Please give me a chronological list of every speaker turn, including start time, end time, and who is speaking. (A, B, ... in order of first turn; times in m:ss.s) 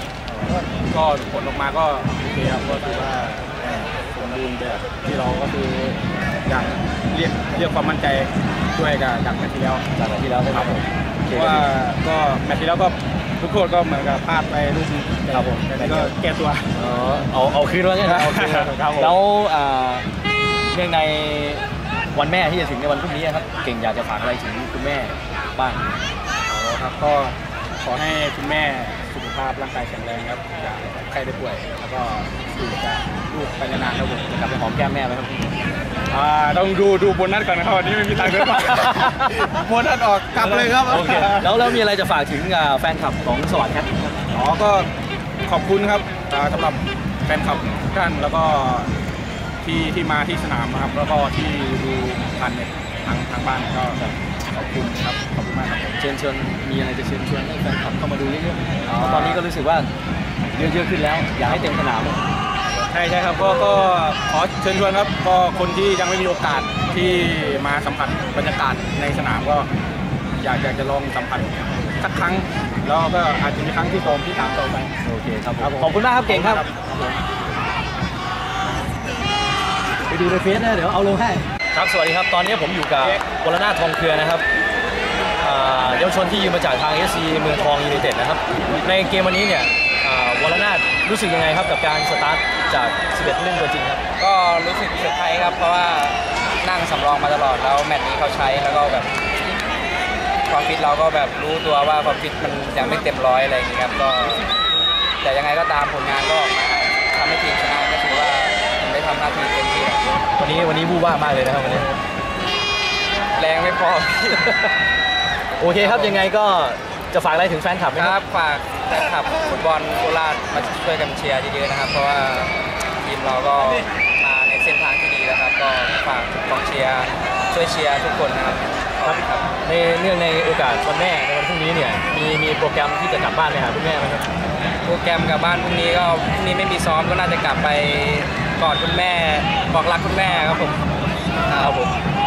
0:00.3-0:09.9 A
0:10.0-0:11.7 B
0:10.5-0:10.8 A
0:11.4-0:16.7 A
0:15.3-0:16.1 B
0:16.7-0:20.1 B
0:18.0-0:19.2 A
0:20.7-0:25.9 B
0:26.5-0:34.4 A
0:34.3-0:35.5 B
0:36.1-0:41.5 A
0:40.4-0:44.3 B
0:44.3-0:44.9 A
0:45.5-0:48.9 A
0:49.6-0:56.0 A
0:56.0-0:59.9 B
0:59.0-0:59.3 A
1:00.6-1:02.2 B
1:02.7-1:09.7 A
1:10.4-1:14.9 A
1:15.0-1:16.8 B
1:15.6-1:17.1 A
1:20.1-1:24.4 B
1:25.4-1:34.0 B
1:34.2-1:39.1 C
1:40.5-1:44.5 C
1:45.2-1:50.1 C
1:50.4-1:51.9 B
1:53.3-1:54.7 C
1:55.6-1:58.2 B
1:55.8-1:56.3 C
1:57.9-2:09.5 C
2:09.0-2:14.3 B
2:14.8-2:20.9 C
2:21.5-2:21.8 C
2:21.5-2:21.9 B